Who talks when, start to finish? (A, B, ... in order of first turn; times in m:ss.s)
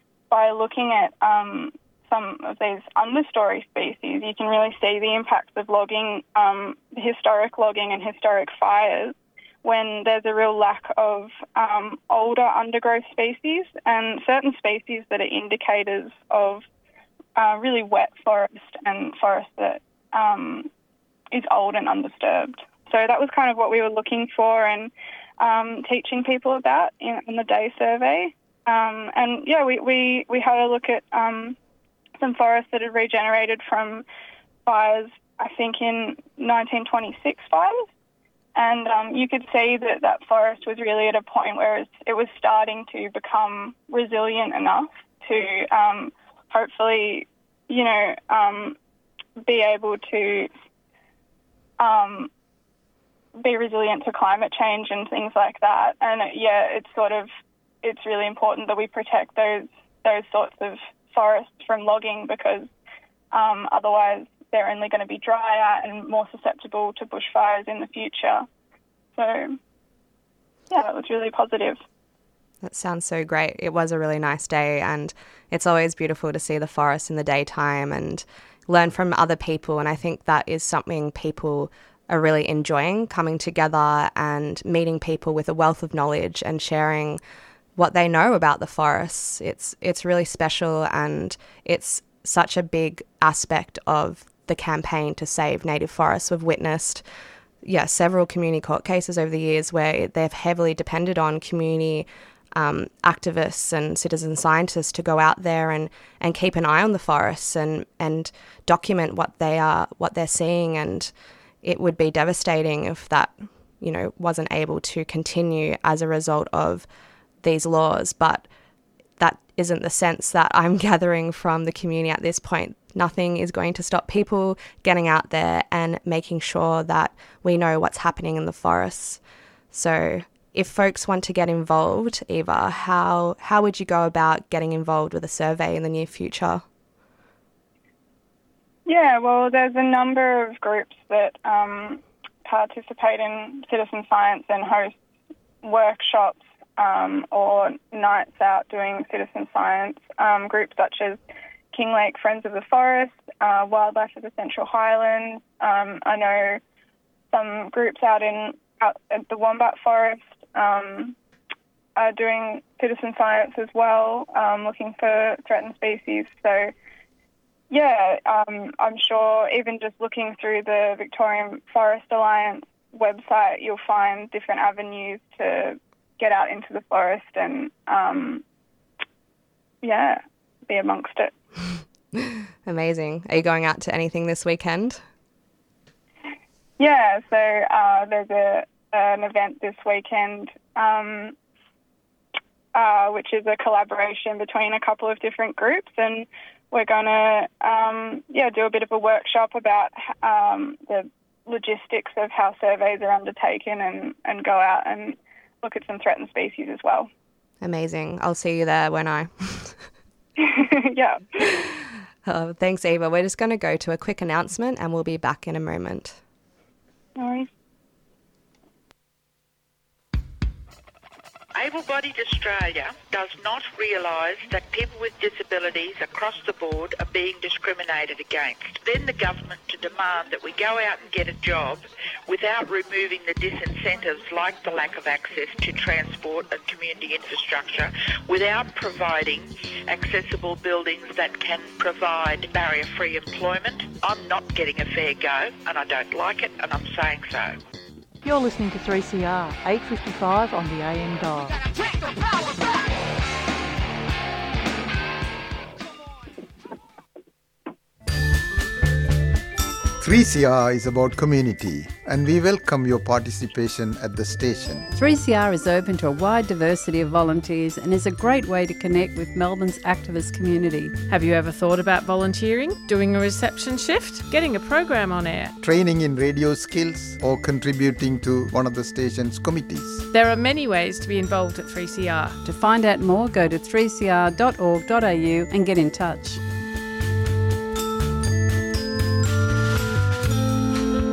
0:00.3-0:16.6 A
0:17.4-0:20.7 A
0:21.3-0:31.6 A
0:32.2-0:34.0 A
0:34.6-0:37.8 A
0:38.6-0:48.8 A
0:49.4-0:50.5 A
0:51.8-0:52.3 A
0:53.4-0:57.3 A
0:57.8-1:02.7 A
1:03.3-1:08.4 A
1:09.2-1:09.6 A
1:10.7-1:11.8 A
1:12.6-1:27.2 B
1:27.8-1:37.0 B
1:37.6-1:51.1 B
1:51.6-1:56.9 B
1:57.4-1:58.5 B
1:59.2-2:16.6 B
2:18.8-2:24.9 A
2:25.6-2:31.2 A
2:31.7-2:36.6 A
2:37.3-2:41.2 A
2:42.0-2:46.7 A
2:47.7-2:58.4 A
2:59.8-3:01.3 A
3:02.1-3:05.0 B
3:06.8-3:11.4 A
3:12.7-3:27.1 A
3:27.6-3:29.8 B
3:30.4-3:31.5 A
3:32.2-3:36.2 B
3:37.2-3:37.5 A
3:41.5-4:07.6 C
4:08.2-4:11.6 D
4:20.0-4:24.9 E
4:25.0-4:31.8 F
4:31.1-4:35.5 G
4:35.6-4:40.0 E
4:40.1-4:42.4 G
4:42.4-4:46.4 F